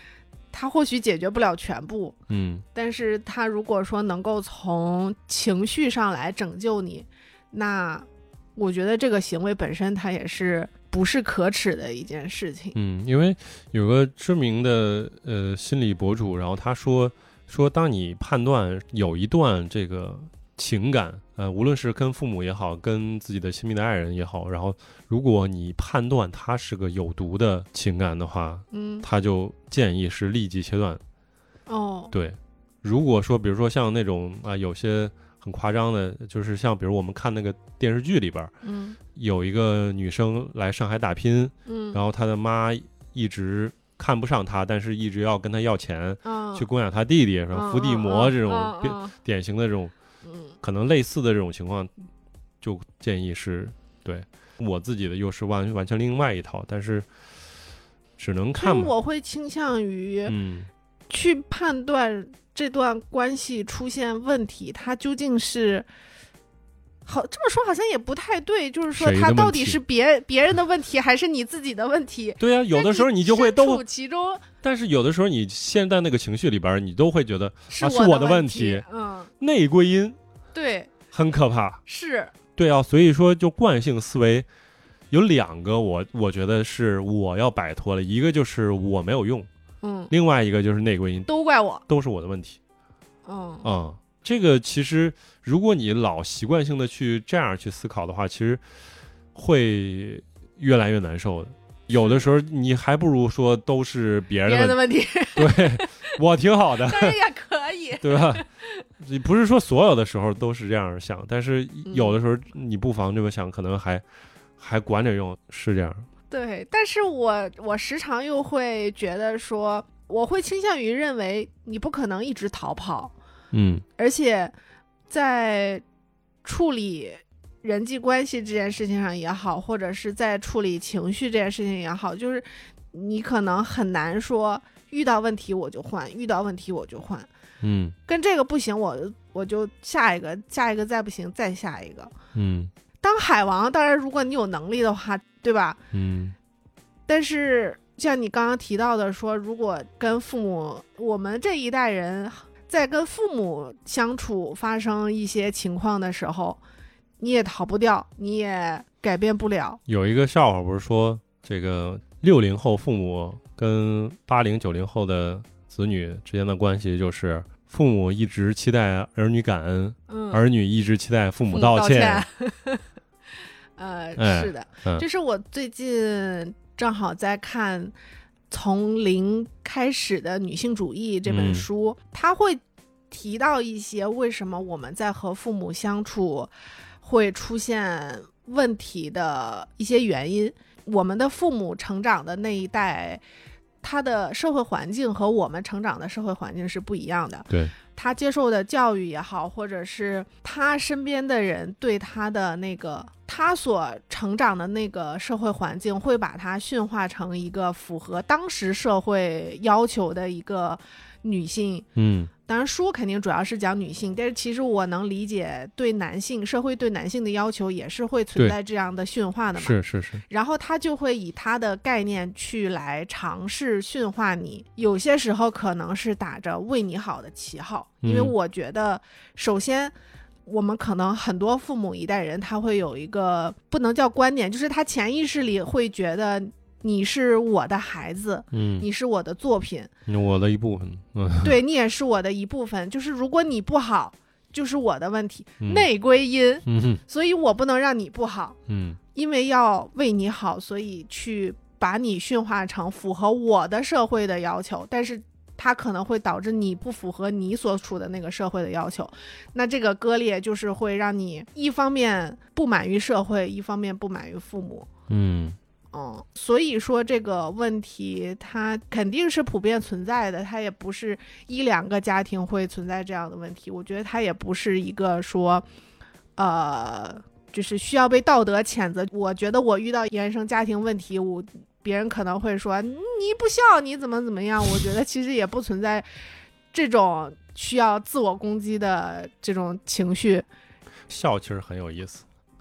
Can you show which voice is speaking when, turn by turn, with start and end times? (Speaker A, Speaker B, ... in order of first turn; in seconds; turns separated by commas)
Speaker A: 0.5-2.2, Speaker B: 2.3-2.6, Speaker A: 2.7-12.8, Speaker B: 12.7-31.0, Speaker A: 28.7-29.1, Speaker A: 31.7-32.1, Speaker B: 32.1-38.5, Speaker A: 38.6-39.0, Speaker B: 39.1-49.9, Speaker A: 41.7-42.0, Speaker A: 46.2-46.7, Speaker A: 47.5-49.1, Speaker A: 50.2-50.6, Speaker B: 50.6-51.9, Speaker B: 52.6-57.1, Speaker B: 58.2-58.9, Speaker A: 58.6-60.4, Speaker B: 60.3-60.7, Speaker A: 61.1-65.9, Speaker A: 67.1-74.5, Speaker B: 68.9-69.8, Speaker B: 72.4-73.8, Speaker B: 74.6-78.9, Speaker A: 77.7-79.3, Speaker B: 79.4-80.2, Speaker A: 80.5-80.9, Speaker B: 81.1-81.8, Speaker A: 81.9-82.3, Speaker B: 82.6-84.5, Speaker B: 85.1-89.5, Speaker A: 89.8-90.1, Speaker B: 90.1-91.3, Speaker A: 91.3-91.8, Speaker B: 91.9-92.6, Speaker A: 93.2-93.7, Speaker B: 93.6-98.6, Speaker B: 99.3-104.8, Speaker A: 104.5-106.2, Speaker B: 105.3-107.2, Speaker A: 106.8-108.8, Speaker B: 108.0-108.5, Speaker B: 109.0-114.0, Speaker A: 111.9-112.2, Speaker B: 114.6-116.1, Speaker A: 116.3-123.1, Speaker B: 123.5-123.8, Speaker A: 124.0-124.5, Speaker A: 125.1-125.8, Speaker A: 126.4-137.3, Speaker B: 137.6-138.0, Speaker A: 138.1-142.1, Speaker B: 142.3-142.7, Speaker A: 143.0-145.8, Speaker B: 145.9-146.3, Speaker A: 147.1-156.6, Speaker A: 157.2-159.8, Speaker B: 159.9-172.3, Speaker A: 170.1-170.4, Speaker A: 171.5-172.9, Speaker A: 173.8-177.9, Speaker B: 174.2-175.1, Speaker A: 178.5-186.5, Speaker B: 181.3-181.7, Speaker A: 187.0-193.2, Speaker A: 193.8-211.9, Speaker B: 212.0-212.3, Speaker A: 212.5-229.9, Speaker B: 219.6-220.2, Speaker B: 228.0-228.3, Speaker A: 230.4-239.9, Speaker B: 238.5-238.9, Speaker B: 240.1-241.6, Speaker A: 241.4-248.6, Speaker B: 245.6-245.9, Speaker B: 246.7-247.0, Speaker B: 248.7-249.0, Speaker A: 249.1-264.9, Speaker B: 265.1-265.6, Speaker A: 265.9-275.6, Speaker A: 276.4-286.1, Speaker A: 286.7-290.5, Speaker B: 291.1-292.2